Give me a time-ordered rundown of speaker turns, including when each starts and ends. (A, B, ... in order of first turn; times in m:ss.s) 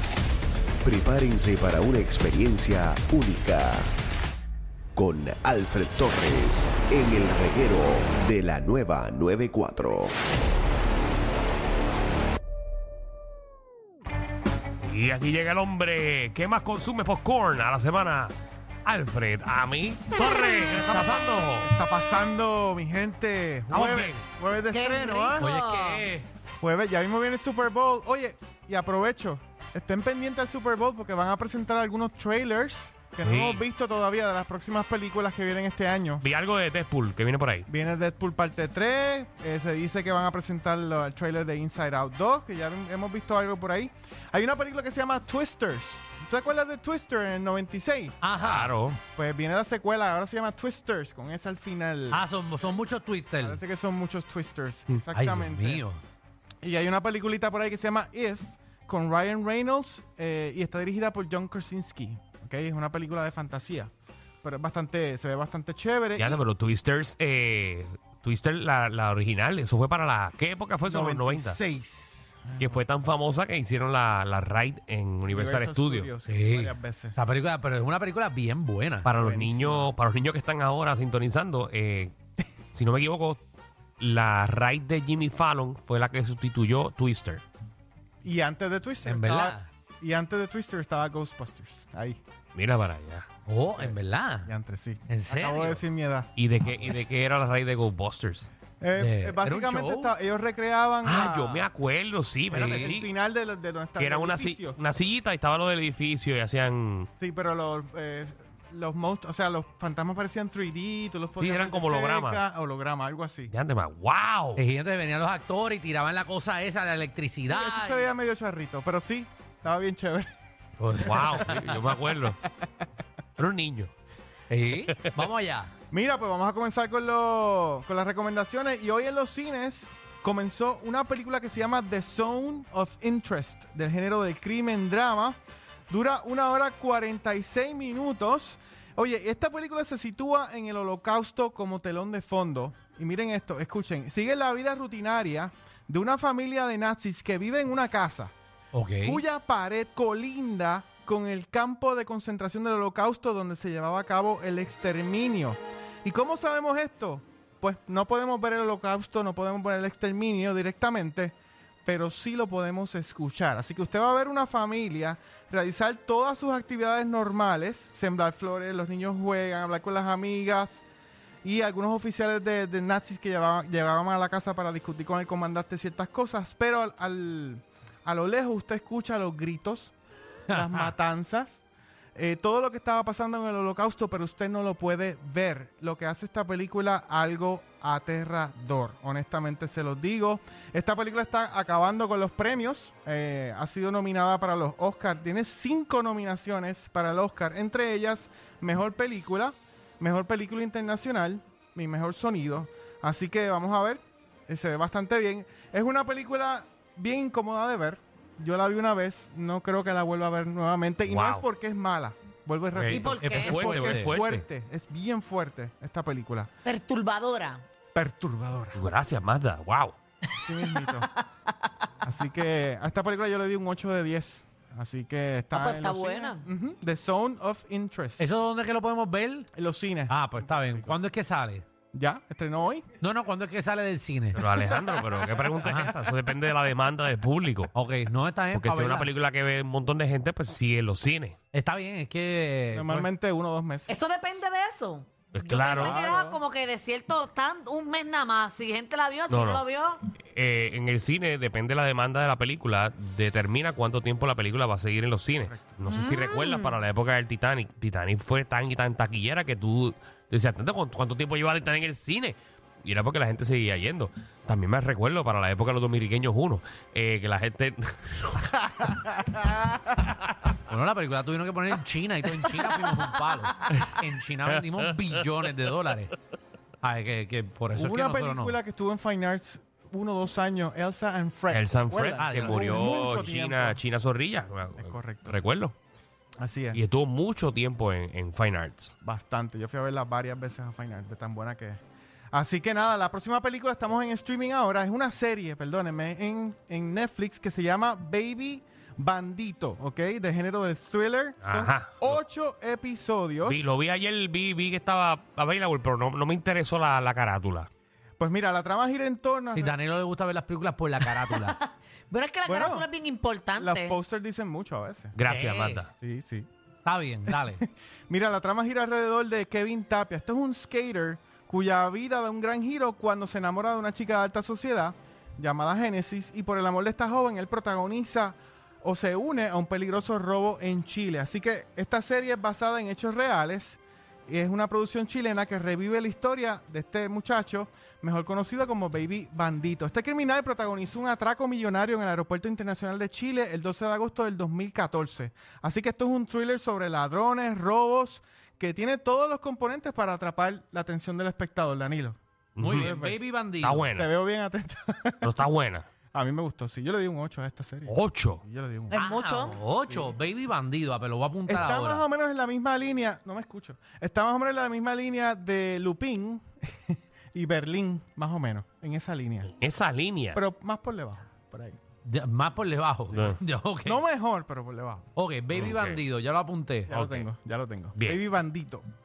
0:00.8-0:03.9 A
0:05.0-0:10.1 A
0:14.8-0:18.3 B
0:18.8-0:21.7 B
0:20.9-0:25.5 C
0:23.7-0:24.3 B
0:24.7-0:26.0 D
0:25.4-0:26.3 E
0:26.6-0:36.2 C
0:33.2-0:33.6 B
0:36.2-0:37.7 B
0:37.7-0:48.2 C
0:48.2-0:48.8 E
0:48.4-0:49.0 B
0:49.2-0:52.3 C
0:52.1-0:53.6 E
0:53.4-0:55.8 C
0:54.9-0:56.0 E
0:56.6-1:03.9 C
1:04.4-1:06.4 C
1:06.2-1:11.6 B
1:10.8-1:12.8 C
1:12.6-1:16.1 B
1:15.3-1:17.2 C
1:16.3-1:19.1 E
1:19.0-1:22.1 B
1:19.2-1:19.9 C
1:22.7-1:23.4 B
1:24.0-1:27.4 B
1:28.2-1:32.2 C
1:29.1-1:29.7 E
1:32.5-1:33.3 B
1:33.5-1:34.5 E
1:33.8-1:36.3 C
1:35.1-1:35.8 E
1:36.4-1:38.5 B
1:38.8-1:41.7 C
1:39.0-1:40.1 E
1:41.0-1:43.1 B
1:42.5-1:44.8 C
1:42.5-1:43.0 E
1:44.0-1:47.1 B
1:47.2-1:53.5 C
1:51.4-1:52.4 B
1:53.5-1:54.6 B
1:54.6-1:58.1 E
1:57.5-2:00.3 C
2:00.8-2:01.6 E
2:01.1-2:02.4 B
2:01.1-2:02.4 C
2:03.4-2:03.9 B
2:04.5-2:05.7 E
2:05.9-2:15.4 C
2:15.9-2:28.3 C
2:28.7-2:29.2 E
2:29.0-2:50.8 C
2:51.4-2:59.9 C
3:00.5-3:01.6 C
3:00.5-3:00.9 E
3:02.2-3:36.5 C
3:31.1-3:31.5 B
3:32.7-3:34.4 B
3:32.9-3:33.7 D
3:33.2-3:34.2 E
3:36.6-3:37.6 D
3:37.9-3:38.8 C
3:38.8-3:40.0 B
3:40.4-3:41.1 C
3:40.7-3:41.0 D
3:42.0-3:48.2 C
3:45.5-3:46.4 D
3:48.2-3:49.5 E
3:49.6-3:51.0 C
3:50.1-3:51.6 E
3:51.9-3:52.8 C
3:53.0-3:54.4 E
3:54.4-3:57.7 B
3:54.6-3:55.5 C
3:55.6-3:56.0 E
3:57.7-3:59.1 E
3:58.5-4:01.4 B
4:01.5-4:03.1 E
4:02.7-4:03.9 C
4:03.9-4:10.0 D
4:05.3-4:06.0 B
4:05.7-4:06.4 C
4:09.3-4:09.7 B
4:10.3-4:28.6 B
4:15.4-4:15.9 C
4:15.9-4:16.8 D
4:28.8-4:29.9 C
4:30.7-4:36.1 E
4:33.7-4:34.0 B
4:34.5-4:34.9 B
4:36.8-4:38.6 E
4:37.7-4:43.8 C
4:41.5-4:45.7 B
4:42.2-4:43.3 E
4:44.8-4:45.4 C
4:46.4-4:46.8 C
4:46.7-4:48.9 B
4:49.0-4:51.8 C
4:52.3-5:03.7 C
5:01.4-5:02.2 B
5:03.4-5:07.7 B
5:08.2-5:09.8 C
5:09.6-5:11.6 E
5:11.3-5:14.0 D
5:12.4-5:12.9 C
5:13.5-5:15.1 C
5:15.1-5:15.9 B
5:15.3-5:15.8 E
5:16.0-5:16.5 C
5:16.8-5:17.6 E
5:17.3-5:53.2 C
5:52.6-5:52.9 B
5:52.6-5:53.9 E
5:53.6-5:54.1 B
5:54.0-5:55.3 C
5:55.2-5:55.9 B
5:56.1-5:59.1 C
5:57.9-5:58.4 B
5:58.9-5:59.6 D
5:59.0-6:02.0 E
5:59.8-6:00.2 C
6:01.5-6:09.5 C
6:09.6-6:10.4 B
6:10.3-6:11.8 C
6:12.0-6:14.0 E
6:13.1-6:15.0 C
6:15.2-6:16.9 E
6:15.6-6:16.0 B
6:16.9-6:18.8 C
6:16.9-6:17.3 B